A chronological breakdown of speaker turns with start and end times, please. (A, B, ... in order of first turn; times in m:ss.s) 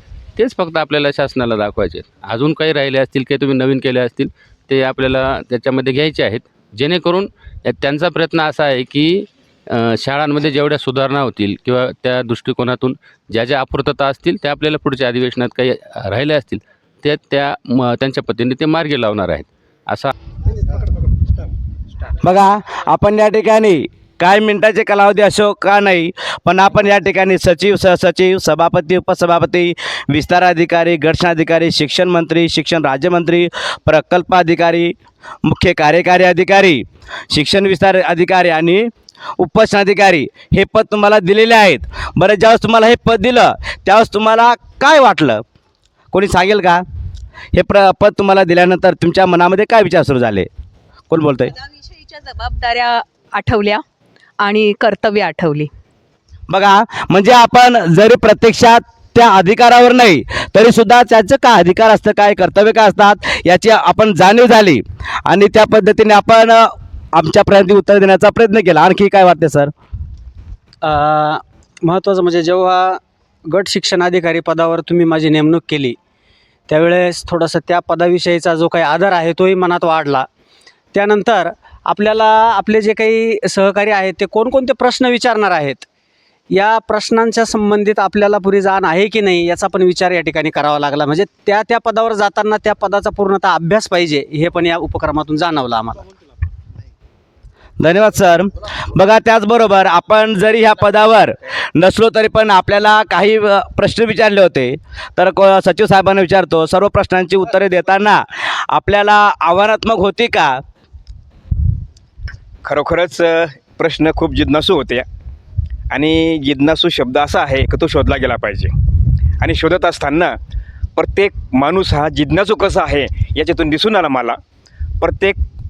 0:00.4-0:20.1 A
0:22.2-0:34.9 B
0:35.4-0:45.4 B
0:46.1-0:46.8 B
0:47.5-0:50.5 B
0:51.1-0:51.5 B
0:51.9-0:53.8 C
0:54.4-0:55.7 C
0:56.5-1:09.7 B
1:10.8-1:16.0 D
1:16.7-1:20.3 D
1:20.9-1:25.8 D
1:26.5-1:36.1 D
1:37.8-1:50.6 B
1:52.6-1:55.0 E
1:55.9-1:58.7 E
1:59.4-2:00.4 E
2:01.0-2:04.4 E
2:05.0-2:05.4 E